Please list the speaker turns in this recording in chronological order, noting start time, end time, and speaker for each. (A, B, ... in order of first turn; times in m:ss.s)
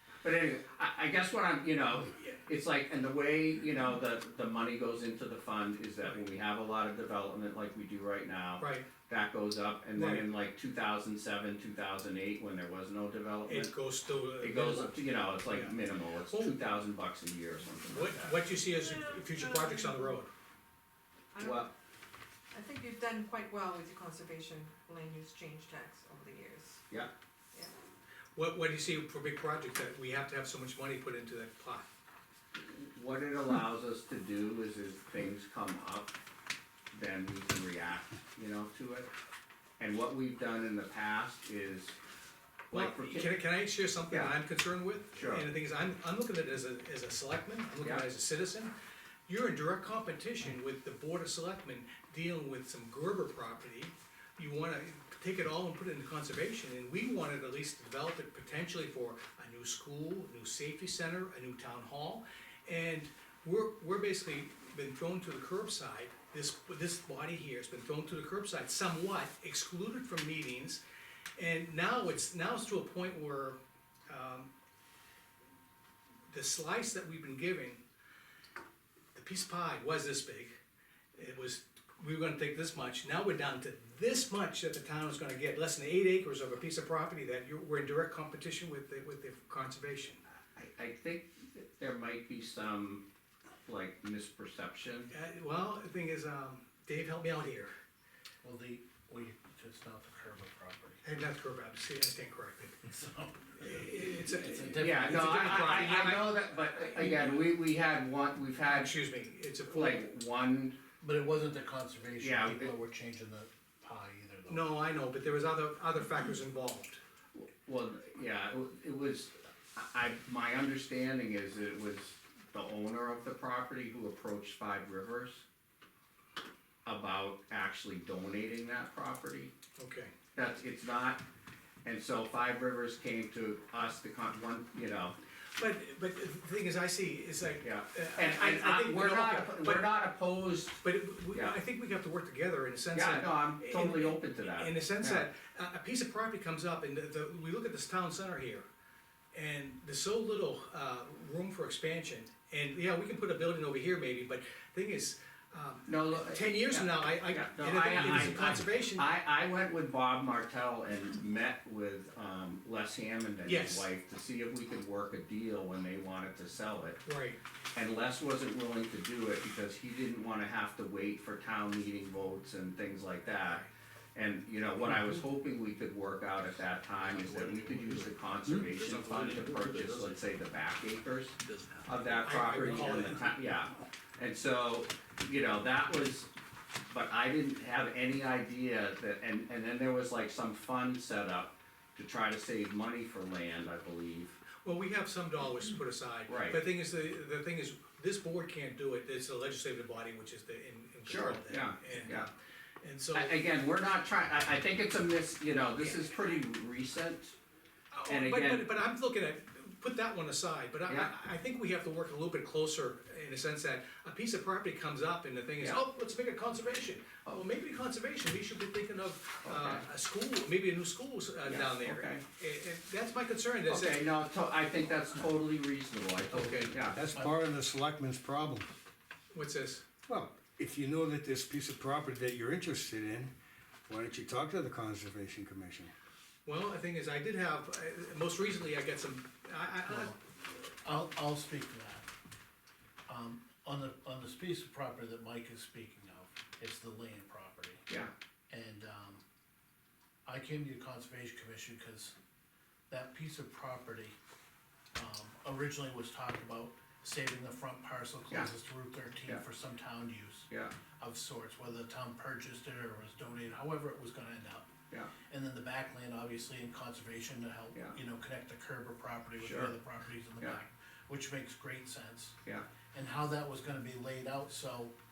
0:00.2-0:13.7 A
0:08.6-0:08.9 B
0:09.9-0:10.3 B
0:13.5-0:15.8 B
0:14.4-0:18.4 A
0:16.3-0:16.6 B
0:17.9-0:20.3 B
0:18.9-0:20.0 C
0:21.3-0:21.7 C
0:21.4-0:21.7 A
0:22.5-0:26.8 C
0:28.4-0:31.9 B
0:32.6-0:36.2 A
0:36.9-0:39.1 A
0:39.8-0:42.0 A
0:42.7-0:43.3 A
0:42.7-0:48.7 B
0:45.2-0:45.5 A
0:49.3-1:10.8 B
1:11.4-1:14.5 B
1:16.3-1:17.8 B
1:19.1-1:20.6 B
1:21.1-1:30.2 B
1:30.6-1:33.0 A
1:33.7-1:35.1 A
1:35.1-1:37.7 B
1:38.4-1:41.0 D
1:41.0-1:42.8 B
1:42.8-1:46.2 D
1:43.6-1:46.4 B
1:44.8-1:48.9 A
1:47.0-1:47.4 B
1:48.7-1:50.0 B
1:49.7-1:50.8 A
1:51.0-1:54.7 D
1:52.2-1:52.7 A
1:54.5-1:57.0 B
1:57.3-2:05.4 A
2:06.9-2:09.5 A
2:09.8-2:10.1 B
2:10.4-2:11.2 A
2:11.8-2:15.2 A
2:15.6-2:19.9 B
2:17.6-2:20.8 A
2:20.8-2:28.6 B
2:22.9-2:25.2 A
2:29.3-2:39.1 B
2:35.9-2:47.0 A
2:43.4-2:43.9 B
2:47.0-2:47.4 B
2:47.8-2:53.6 A
2:54.2-3:06.3 A
2:57.1-2:58.0 E
2:58.6-3:00.2 E
3:01.5-3:01.8 E
3:02.2-3:03.3 B
3:06.9-3:14.4 A
3:14.6-3:22.3 B
3:16.3-3:16.6 A
3:21.0-3:22.3 A
3:22.8-3:23.4 B
3:23.1-3:27.4 A
3:27.9-3:44.1 B
3:28.1-3:28.7 A
3:39.4-3:39.8 A
3:41.4-3:42.2 A
3:43.7-3:47.0 A
3:46.3-3:46.7 B
3:46.9-3:48.7 E
3:47.1-3:47.4 D
3:49.3-3:49.8 B
3:50.1-3:53.3 E
3:53.9-3:55.9 E
3:56.5-4:00.1 B
3:59.9-4:02.1 D
4:03.1-4:07.8 D
4:08.5-4:09.2 D
4:10.3-4:12.2 D
4:12.9-4:14.2 D
4:15.0-4:24.7 D
4:25.3-4:32.4 D
4:29.4-4:29.7 A
4:32.9-4:34.9 D